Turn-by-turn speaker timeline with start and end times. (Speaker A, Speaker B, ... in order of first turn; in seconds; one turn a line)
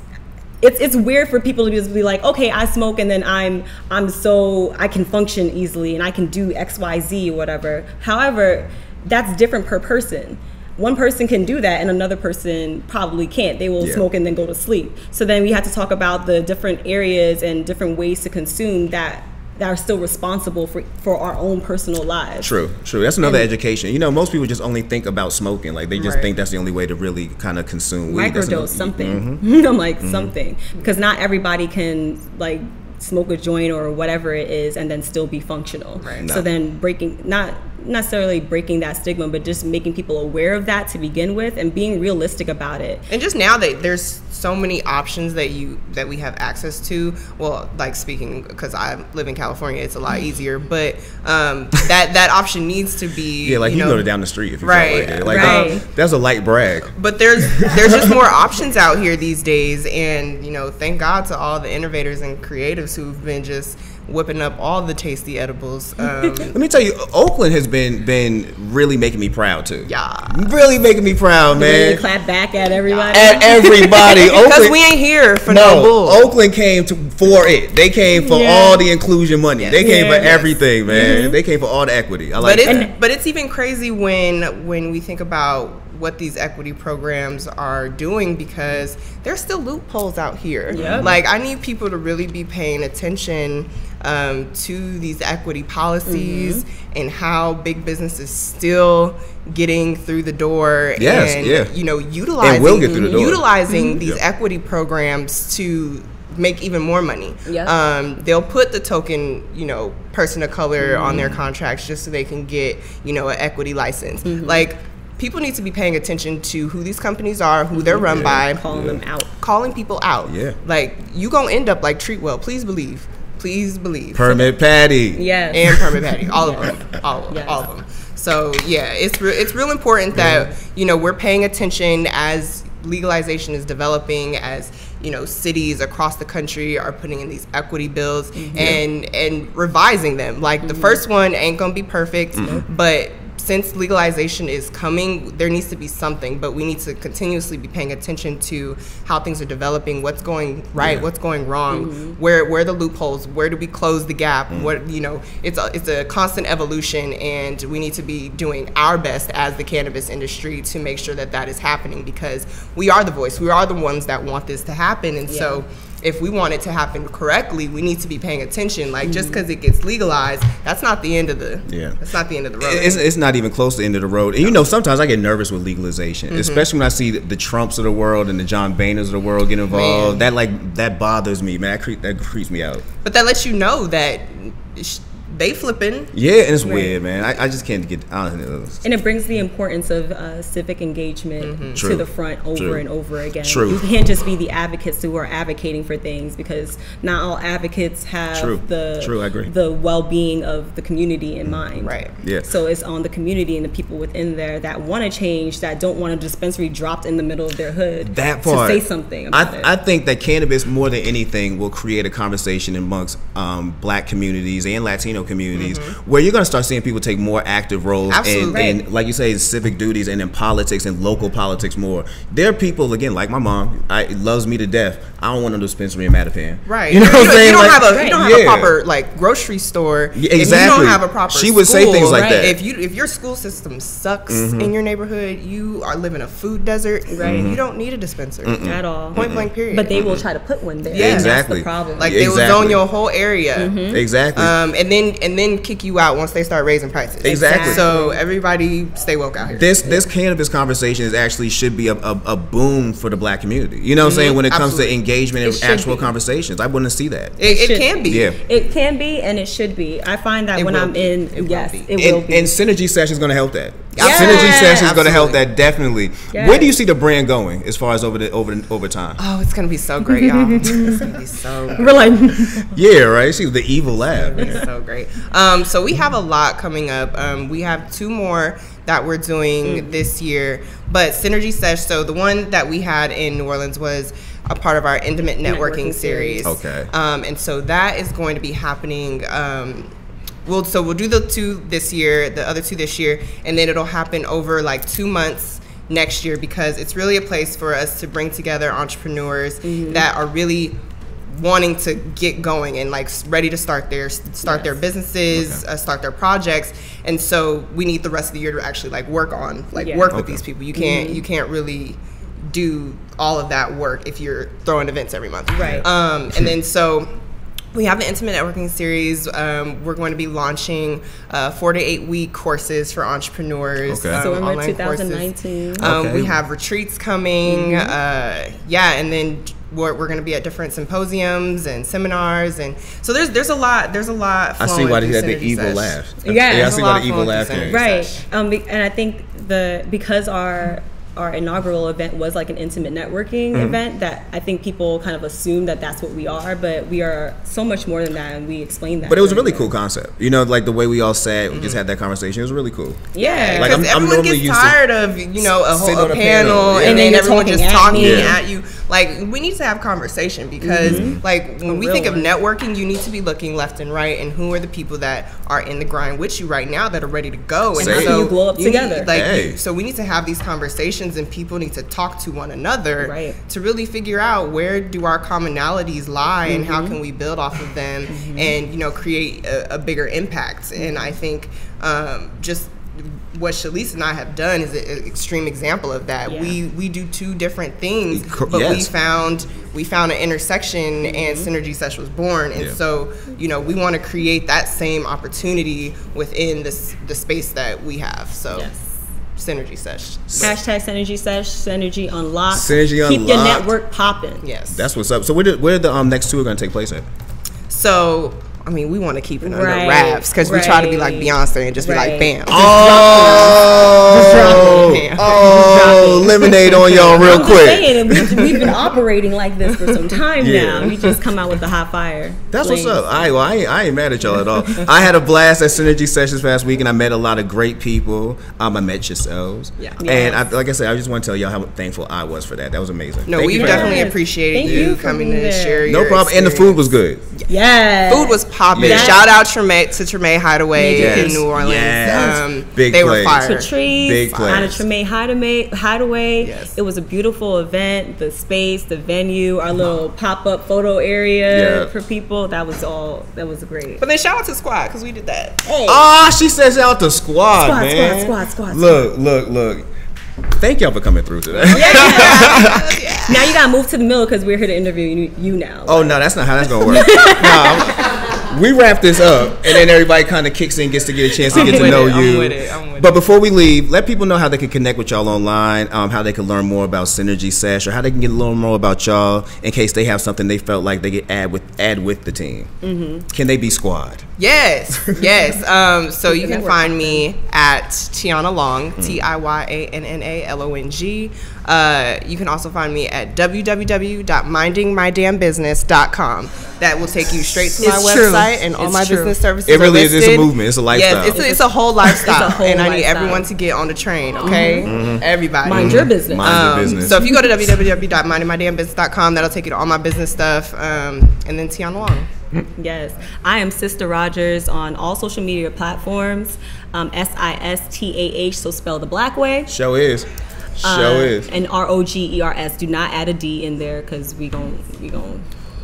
Speaker A: 0.6-22.5
Speaker B: 13.8-14.0
Speaker B: 22.4-29.4
Speaker A: 23.2-23.5
Speaker C: 25.9-26.3
Speaker A: 28.1-43.0
Speaker B: 30.0-30.3
Speaker C: 36.0-36.3
Speaker C: 43.1-54.1
Speaker B: 53.4-56.9
Speaker C: 54.6-55.8
Speaker A: 55.3-55.8
Speaker C: 56.9-66.6
Speaker B: 57.5-58.2
Speaker B: 66.5-72.0
Speaker C: 69.8-70.3
Speaker A: 71.5-74.2
Speaker C: 72.9-76.2
Speaker B: 73.1-74.8
Speaker B: 75.5-82.9
Speaker A: 78.2-78.8
Speaker C: 79.6-81.2
Speaker A: 79.8-80.3
Speaker A: 80.9-81.4
Speaker C: 82.4-118.8
Speaker A: 82.6-82.9
Speaker A: 90.7-91.1
Speaker B: 90.7-91.2
Speaker A: 96.1-96.6
Speaker B: 101.0-101.7
Speaker B: 102.4-103.4
Speaker A: 102.8-103.2
Speaker A: 103.7-104.0
Speaker A: 107.5-107.8
Speaker A: 110.8-111.3
Speaker B: 111.1-111.4
Speaker A: 114.2-114.7
Speaker A: 117.7-119.3
Speaker B: 118.1-119.0
Speaker C: 119.4-124.3
Speaker B: 120.2-120.6
Speaker B: 124.1-125.3
Speaker A: 124.2-124.5
Speaker A: 125.1-126.7
Speaker C: 125.5-173.0
Speaker A: 127.3-127.7
Speaker B: 130.1-130.5
Speaker A: 138.3-138.8
Speaker B: 138.6-138.8
Speaker A: 140.6-141.0
Speaker A: 142.4-142.6
Speaker B: 150.8-151.1
Speaker A: 151.7-152.2
Speaker A: 165.3-165.6
Speaker A: 169.0-169.4
Speaker B: 171.7-172.0
Speaker B: 172.6-182.8
Speaker C: 176.3-176.7
Speaker C: 179.7-180.2
Speaker C: 183.0-186.1
Speaker B: 186.1-188.8
Speaker A: 186.6-186.9
Speaker A: 188.8-209.7
Speaker C: 191.4-191.8
Speaker B: 191.7-192.8
Speaker B: 193.4-193.8
Speaker B: 198.3-199.5
Speaker C: 201.8-202.2
Speaker B: 202.2-202.5
Speaker B: 208.0-228.8
Speaker C: 215.5-215.9
Speaker C: 218.1-218.7
Speaker A: 218.5-218.8
Speaker C: 226.7-240.1
Speaker A: 227.8-228.2
Speaker B: 230.1-232.6
Speaker A: 230.4-230.8
Speaker A: 232.2-232.5
Speaker B: 234.3-234.7
Speaker A: 237.1-237.5
Speaker B: 237.2-237.6
Speaker B: 238.4-240.2
Speaker A: 238.6-242.2
Speaker C: 240.9-241.3
Speaker B: 240.9-242.8
Speaker C: 242.0-243.8
Speaker A: 243.6-244.0
Speaker B: 243.9-244.5
Speaker C: 244.3-249.8
Speaker B: 247.2-247.8
Speaker A: 247.2-248.2
Speaker B: 249.5-257.3
Speaker C: 254.0-255.0
Speaker A: 255.4-256.1
Speaker C: 257.4-258.3
Speaker A: 257.4-262.5
Speaker B: 258.0-258.4
Speaker C: 260.5-261.9
Speaker B: 262.0-269.2
Speaker C: 263.9-265.4
Speaker A: 264.0-264.9
Speaker A: 266.3-266.7
Speaker C: 269.2-272.1
Speaker A: 270.1-271.0
Speaker A: 271.8-272.7
Speaker B: 272.7-274.6
Speaker C: 274.1-289.9
Speaker A: 279.6-280.0
Speaker A: 285.4-286.5
Speaker B: 286.4-286.9
Speaker C: 290.4-300.8
Speaker A: 299.6-300.1
Speaker C: 301.3-317.1
Speaker A: 304.4-304.8
Speaker B: 305.3-305.6
Speaker A: 309.7-310.1
Speaker B: 310.1-310.4
Speaker A: 310.7-311.2
Speaker A: 315.5-315.9
Speaker B: 315.6-315.9
Speaker C: 317.7-338.3
Speaker B: 323.9-324.2
Speaker A: 324.1-325.9
Speaker B: 325.8-326.4
Speaker A: 327.5-328.0
Speaker B: 334.6-337.8
Speaker A: 336.2-336.8
Speaker A: 337.7-349.7
Speaker B: 343.5-343.8
Speaker B: 349.1-354.8
Speaker C: 351.5-351.8
Speaker A: 353.1-353.8
Speaker C: 353.2-398.7
Speaker B: 355.5-357.2
Speaker A: 356.8-358.4
Speaker B: 357.9-358.4
Speaker A: 360.6-362.3
Speaker B: 360.8-361.2
Speaker A: 367.8-369.1
Speaker B: 367.8-368.3
Speaker B: 369.1-369.6
Speaker A: 373.0-373.4
Speaker A: 376.5-377.0
Speaker A: 378.1-378.5
Speaker A: 380.8-381.1
Speaker A: 386.2-386.6
Speaker B: 388.1-388.9
Speaker A: 391.0-391.5
Speaker A: 398.5-398.8
Speaker C: 399.4-400.5
Speaker A: 400.4-404.4
Speaker B: 402.5-403.7
Speaker C: 404.4-404.9
Speaker B: 404.7-407.1
Speaker C: 407.7-417.6
Speaker A: 409.4-413.6
Speaker B: 412.5-418.7
Speaker A: 414.2-423.0
Speaker B: 420.4-421.1
Speaker B: 422.5-434.1
Speaker A: 430.0-430.5
Speaker C: 433.2-437.5
Speaker A: 433.4-435.9
Speaker B: 434.6-434.9
Speaker B: 435.9-437.2
Speaker A: 437.5-439.3
Speaker C: 438.1-443.7
Speaker B: 438.7-439.2
Speaker A: 440.7-441.4
Speaker B: 440.9-444.8
Speaker A: 442.1-442.4
Speaker A: 443.4-454.0
Speaker C: 444.2-444.7
Speaker C: 446.4-446.8
Speaker B: 451.5-451.9
Speaker C: 454.0-455.6
Speaker A: 455.6-456.0
Speaker B: 455.9-459.9
Speaker A: 457.6-459.1
Speaker B: 460.6-462.9
Speaker C: 461.6-463.6
Speaker A: 461.7-462.7
Speaker A: 463.3-466.1
Speaker B: 465.9-482.7
Speaker A: 466.9-468.2
Speaker C: 471.5-473.2
Speaker A: 471.5-472.0
Speaker A: 482.8-483.3
Speaker B: 483.3-484.3
Speaker C: 484.4-512.3
Speaker A: 486.2-487.2
Speaker B: 489.0-489.2
Speaker A: 497.8-499.4
Speaker B: 499.6-501.4
Speaker A: 501.3-503.5
Speaker A: 504.4-504.9
Speaker B: 504.8-507.2
Speaker A: 505.6-507.5
Speaker A: 512.8-519.7
Speaker B: 519.7-521.5
Speaker A: 520.8-525.4